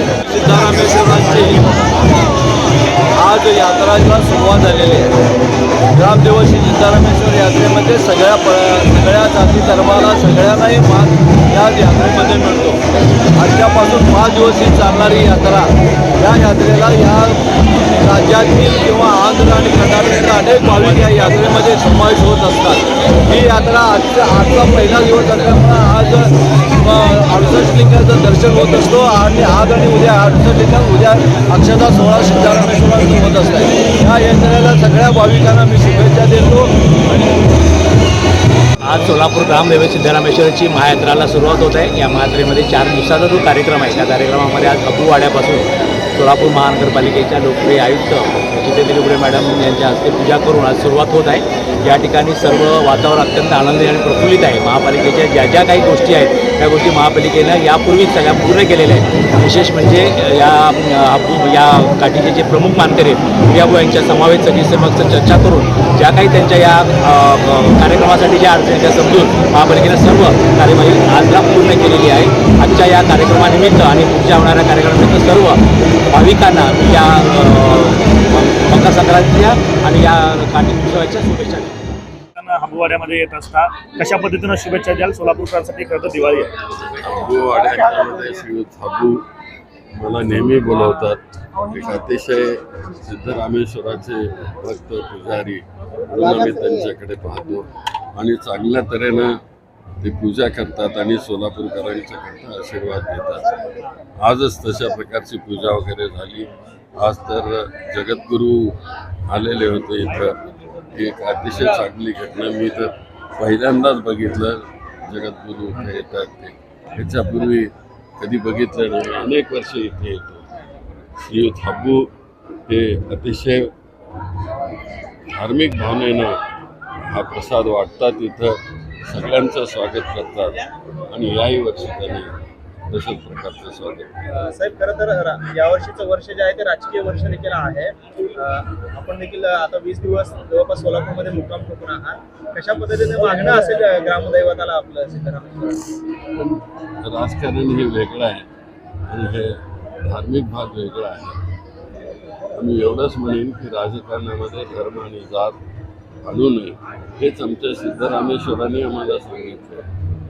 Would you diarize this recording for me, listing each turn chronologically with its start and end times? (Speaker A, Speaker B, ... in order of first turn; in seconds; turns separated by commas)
Speaker A: 0.3-1.6, Speaker A: 3.2-5.2, Speaker A: 6.0-12.8, Speaker A: 13.4-17.4, Speaker A: 18.0-26.3, Speaker B: 20.8-21.4, Speaker A: 26.8-37.3, Speaker B: 38.8-75.6, Speaker B: 76.1-81.7, Speaker C: 82.4-86.5, Speaker D: 86.5-89.2, Speaker D: 90.0-99.4, Speaker D: 100.0-103.5, Speaker D: 104.2-110.4, Speaker D: 110.9-120.4, Speaker D: 121.2-122.1, Speaker D: 122.7-123.7, Speaker D: 125.3-126.4, Speaker D: 127.1-132.3, Speaker D: 132.9-134.1, Speaker E: 134.3-145.9, Speaker D: 147.0-148.5, Speaker D: 149.1-151.4, Speaker D: 152.6-155.6, Speaker D: 156.2-159.8